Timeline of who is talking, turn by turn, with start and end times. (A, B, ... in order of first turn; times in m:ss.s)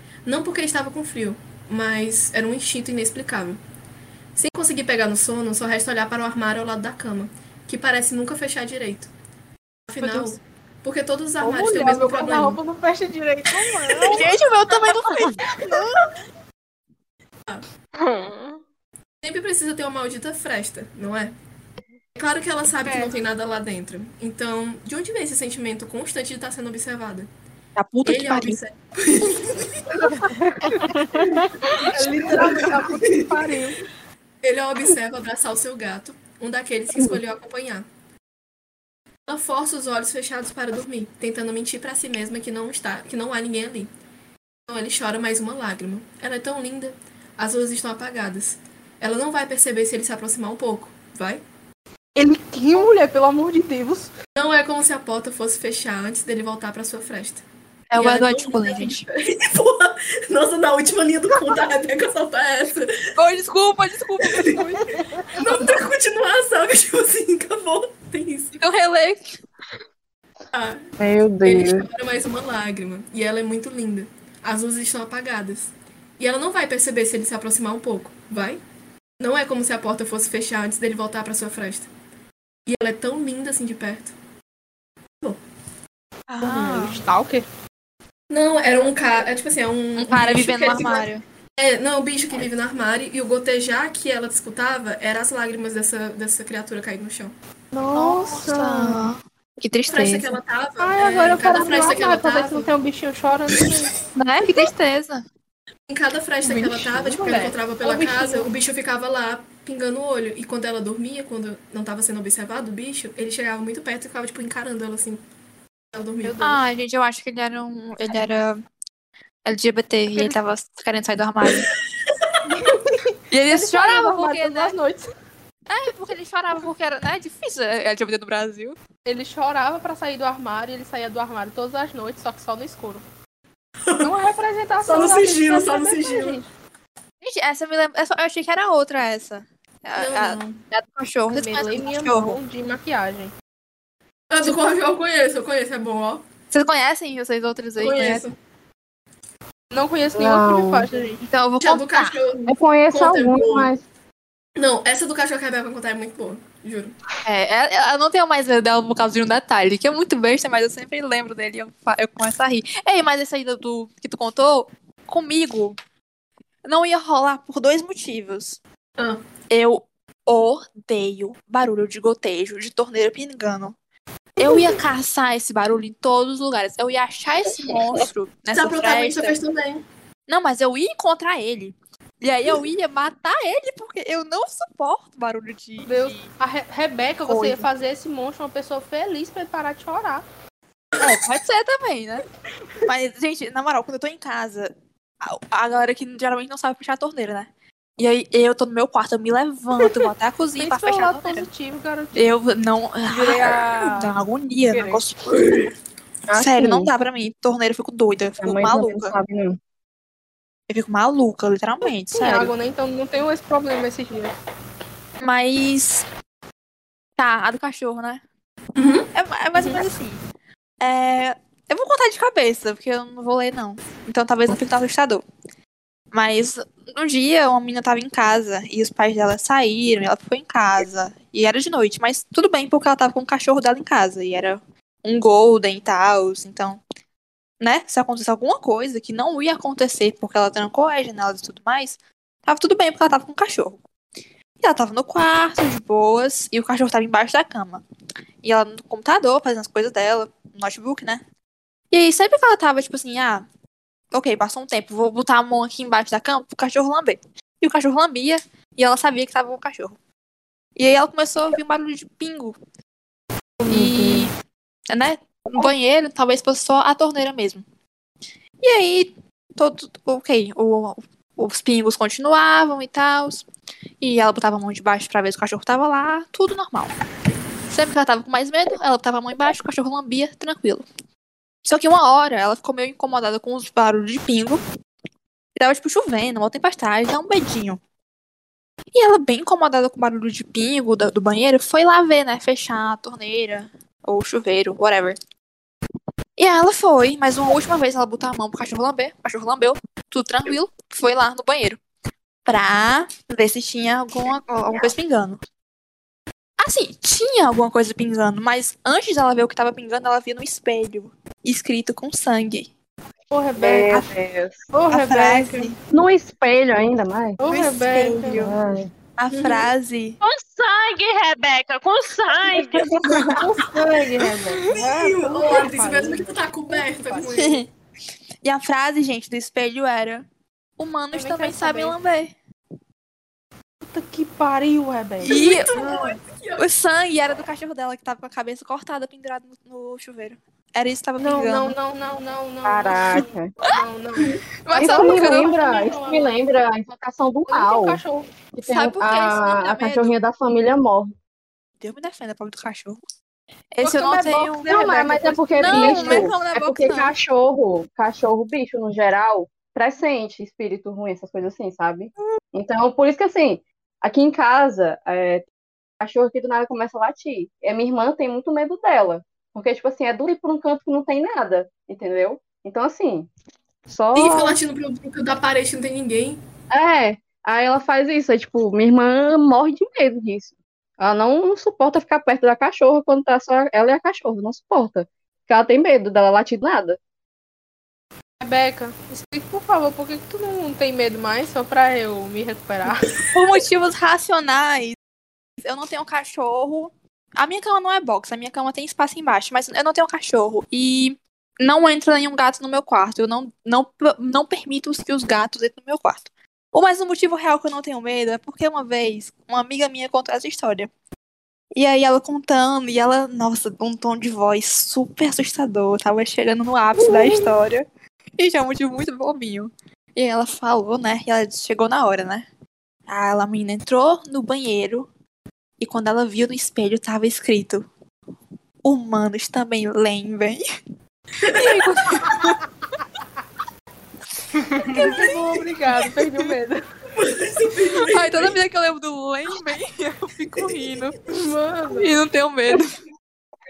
0:00.2-0:03.6 A
0:04.4-0:09.1 A
0:09.9-0:12.6 A
0:10.0-0:10.3 B
0:11.4-0:14.4 B
0:14.1-0:16.0 C
0:18.0-0:18.6 D
0:19.2-0:21.4 A
0:22.2-0:27.3 A
0:22.8-0:23.1 B
0:27.8-0:28.6 C
0:28.0-0:30.0 A
0:30.0-0:33.8 B
0:31.8-0:33.4 A
0:34.4-0:37.9 A
0:37.0-0:37.2 E
0:39.3-0:43.9 A
0:44.7-0:51.4 A
0:52.1-0:54.1 B
0:54.4-0:57.4 A
0:57.9-0:59.1 C
0:58.0-1:03.0 A
1:03.2-1:05.0 C
1:04.2-1:04.7 A
1:05.3-1:08.5 A
1:08.6-1:09.4 C
1:10.5-1:10.8 A
1:11.0-1:11.9 E
1:11.4-1:18.6 A
1:19.2-1:21.9 A
1:22.7-1:24.1 A
1:26.3-1:27.0 C
1:26.4-1:27.4 B
1:28.3-1:37.4 A
1:30.0-1:31.2 C
1:37.7-1:39.1 B
1:37.9-1:40.4 C
1:39.9-1:42.7 A
1:40.8-1:44.0 B
1:44.2-1:45.2 C
1:45.9-1:55.2 A
1:46.4-1:48.5 B
1:55.9-1:56.6 A
1:56.4-1:58.6 C
1:59.4-2:01.7 C
2:02.5-2:05.1 B
2:03.3-2:04.7 C
2:05.7-2:08.8 C
2:09.1-2:13.0 B
2:14.0-2:16.5 B
2:14.8-2:16.4 A
2:17.2-2:22.4 C
2:20.0-2:20.6 A
2:21.3-2:23.3 B
2:24.3-2:26.3 A
2:26.5-2:28.2 C
2:27.8-2:28.4 A
2:29.7-2:31.2 B
2:30.1-2:30.9 E
2:31.2-2:32.2 C
2:31.6-2:33.7 A
2:32.4-2:33.8 E
2:34.6-2:37.0 A
2:37.2-2:45.8 C
2:46.6-2:48.6 C
2:49.0-2:49.2 A
2:49.5-2:53.8 C
2:54.4-2:59.4 C
2:58.5-2:59.8 A
3:00.3-3:06.3 C
3:05.8-3:10.3 B
3:07.2-3:07.7 C
3:11.0-3:12.2 C
3:12.8-3:21.5 C
3:20.6-3:22.4 B
3:22.1-3:25.5 C
3:23.1-3:25.0 B
3:25.3-3:25.7 A
3:26.3-3:26.9 E
3:26.4-3:29.2 C
3:28.4-3:29.6 E
3:30.7-3:32.5 C
3:32.1-3:34.4 B
3:35.2-3:36.1 C
3:37.2-3:38.2 C
3:38.8-3:39.8 A
3:39.1-3:40.2 C
3:40.8-3:45.2 C
3:46.1-3:56.8 C
3:57.6-4:03.8 C
4:04.6-4:07.8 C
4:08.4-4:11.2 C
4:11.9-4:13.5 C
4:14.1-4:20.0 C
4:20.8-4:22.6 C
4:23.6-4:24.3 B
4:23.7-4:24.3 C
4:24.9-4:27.6 C
4:28.6-4:33.5 C
4:34.0-4:36.9 C
4:37.7-4:40.9 C
4:41.7-4:44.6 C
4:45.6-4:47.8 C
4:48.9-4:55.2 C
4:56.4-5:01.8 C
5:02.4-5:05.4 C
5:06.6-5:12.7 C
5:13.3-5:14.1 B
5:13.6-5:14.6 E
5:14.7-5:15.7 B
5:14.9-5:15.8 C
5:15.9-5:17.4 E
5:17.4-5:18.5 B
5:17.4-5:18.6 C
5:18.4-5:18.9 E
5:19.2-5:20.2 C
5:19.3-5:19.7 A
5:20.2-5:22.9 D
5:22.7-5:23.4 E
5:23.3-5:27.3 B
5:24.7-5:27.6 A
5:27.2-5:27.7 C
5:28.4-5:30.2 C
5:30.8-5:32.4 C
5:31.1-5:32.0 B
5:33.8-5:36.1 B
5:35.2-5:35.7 C
5:35.2-5:36.6 A
5:36.6-5:41.8 C
5:41.2-5:46.3 B
5:42.6-5:43.5 E
5:44.7-5:45.5 C
5:44.8-5:48.0 E
5:47.5-5:48.3 B
5:48.5-5:51.1 E
5:48.6-5:50.2 C
5:51.8-5:53.0 C
5:53.7-5:54.8 C
5:53.8-5:56.3 B
5:54.6-6:05.4 E
5:55.6-5:57.2 C
6:06.0-6:13.3 E
6:13.9-6:14.6 E
6:14.1-6:16.4 A
6:16.7-6:27.0 E
6:28.4-6:33.1 B
6:33.3-6:35.0 C
6:35.6-6:50.9 C
6:51.7-6:57.8 C
6:58.4-7:02.4 C
7:03.1-7:05.1 C
7:05.8-7:07.8 C
7:08.8-7:10.6 C
7:11.4-7:12.4 A
7:11.4-7:12.6 C
7:14.7-7:15.6 C
7:14.8-7:16.8 B
7:17.1-7:18.6 A
7:18.0-7:21.2 C
7:21.3-7:22.1 B
7:21.9-7:23.0 C